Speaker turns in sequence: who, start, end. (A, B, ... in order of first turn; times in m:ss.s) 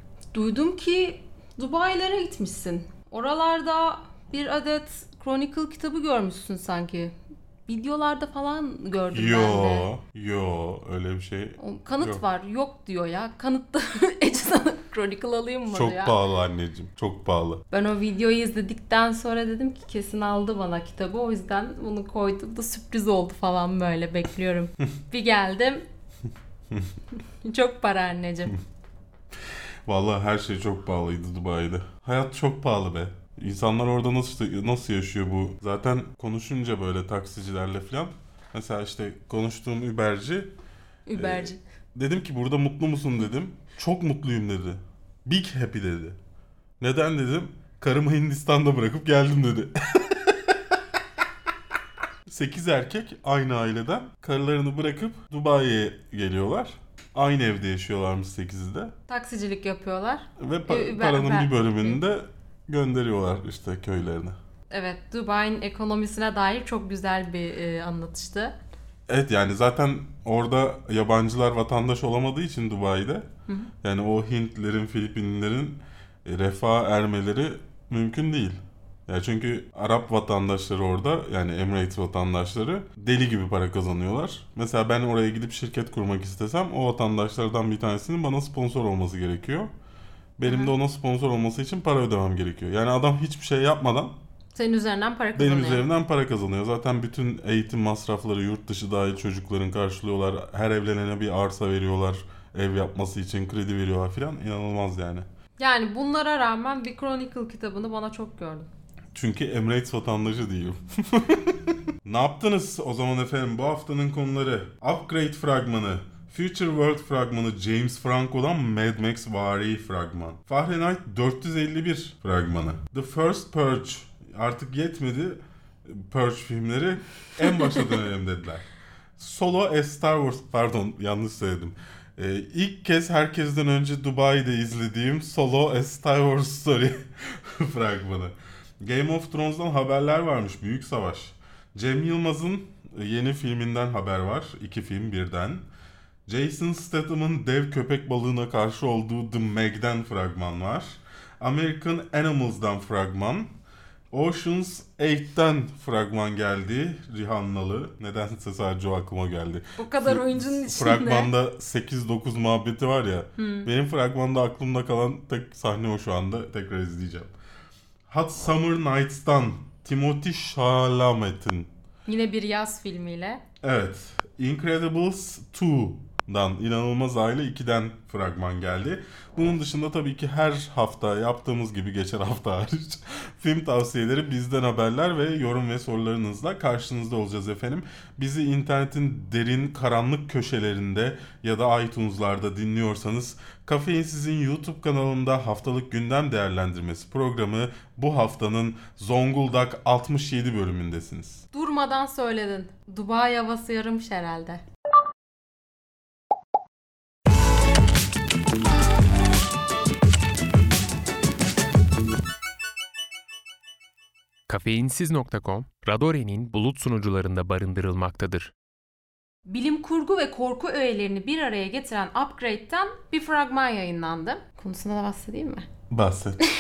0:00.3-0:07.1 A
0:07.7-0:09.9 A
0:09.1-0:12.2 B
0:11.6-0:16.2 A
0:15.7-0:17.6 B
0:17.7-0:25.9 A
0:27.4-0:28.6 A
0:29.5-0:40.5 B
0:41.1-0:41.6 A
0:41.2-0:46.2 B
0:46.8-0:50.8 B
0:52.3-0:58.9 B
0:59.1-1:02.0 A
1:00.4-1:04.4 B
1:04.7-1:08.6 A
1:09.1-1:13.3 B
1:13.8-1:29.7 B
1:30.4-1:34.2 B
1:30.5-1:30.7 A
1:34.6-1:35.8 A
1:35.4-1:45.3 B
1:45.6-1:48.7 A
1:49.1-2:25.7 B
2:26.3-2:33.5 B
2:34.1-2:47.3 B
2:39.8-2:41.3 A
2:43.4-2:43.7 A
2:48.1-2:51.7 B
2:52.1-2:53.4 A
2:53.6-3:21.4 B
3:21.5-3:24.6 A
3:34.5-3:38.5 C
3:39.5-3:45.7 A
3:45.9-3:46.4 B